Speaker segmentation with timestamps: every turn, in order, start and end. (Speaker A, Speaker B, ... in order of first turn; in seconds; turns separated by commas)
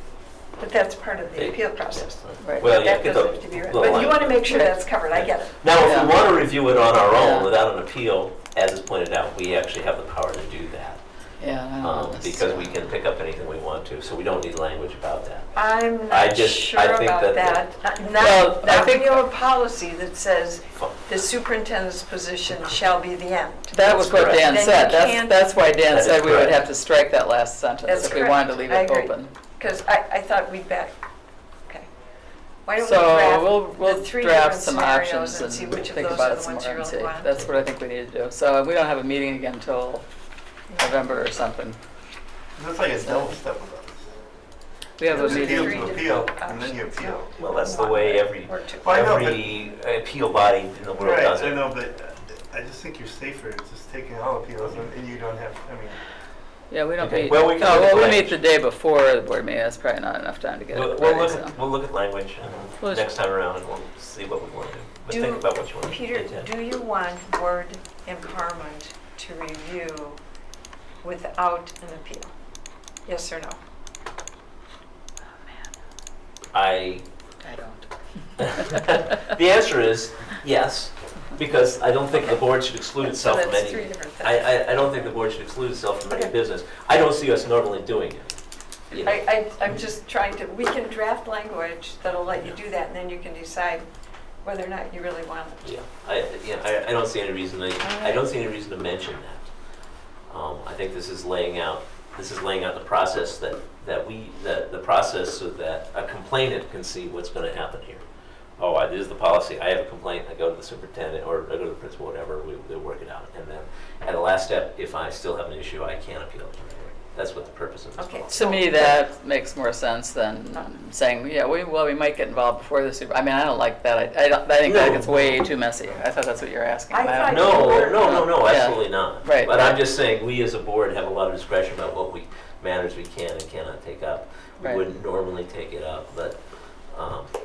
Speaker A: 0.6-5.6, Speaker B: 1.4-11.0, Speaker C: 2.4-2.7, Speaker C: 5.8-6.1, Speaker C: 7.1-7.5, Speaker C: 11.4-12.7, Speaker B: 11.8-17.6, Speaker A: 15.5-23.7, Speaker C: 18.2-19.2, Speaker C: 23.7-29.3, Speaker B: 23.8-24.5, Speaker A: 24.3-25.5, Speaker B: 25.9-26.6, Speaker A: 27.8-30.9, Speaker A: 32.6-37.4, Speaker C: 32.8-40.0, Speaker A: 40.7-41.1, Speaker C: 40.7-41.8, Speaker D: 42.5-44.0, Speaker C: 45.0-46.2, Speaker A: 45.1-49.0, Speaker D: 45.1-47.3, Speaker B: 47.3-51.6, Speaker D: 48.8-49.5, Speaker D: 51.0-56.0, Speaker C: 56.7-61.5, Speaker B: 57.0-58.4, Speaker B: 60.7-66.5, Speaker C: 62.8-63.1, Speaker A: 65.1-70.2, Speaker A: 71.0-72.3, Speaker A: 73.0-73.6, Speaker B: 76.5-77.0, Speaker C: 77.4-77.9, Speaker C: 78.4-79.0, Speaker B: 78.4-88.3, Speaker A: 83.1-85.0, Speaker B: 88.9-89.2, Speaker A: 89.0-93.8, Speaker A: 94.4-95.7, Speaker B: 95.6-99.5, Speaker A: 97.8-98.2, Speaker B: 100.3-108.0, Speaker B: 108.6-118.5, Speaker A: 118.0-118.8, Speaker C: 118.3-129.8, Speaker B: 124.7-125.5, Speaker A: 126.9-128.0, Speaker B: 127.3-136.4, Speaker B: 136.9-137.3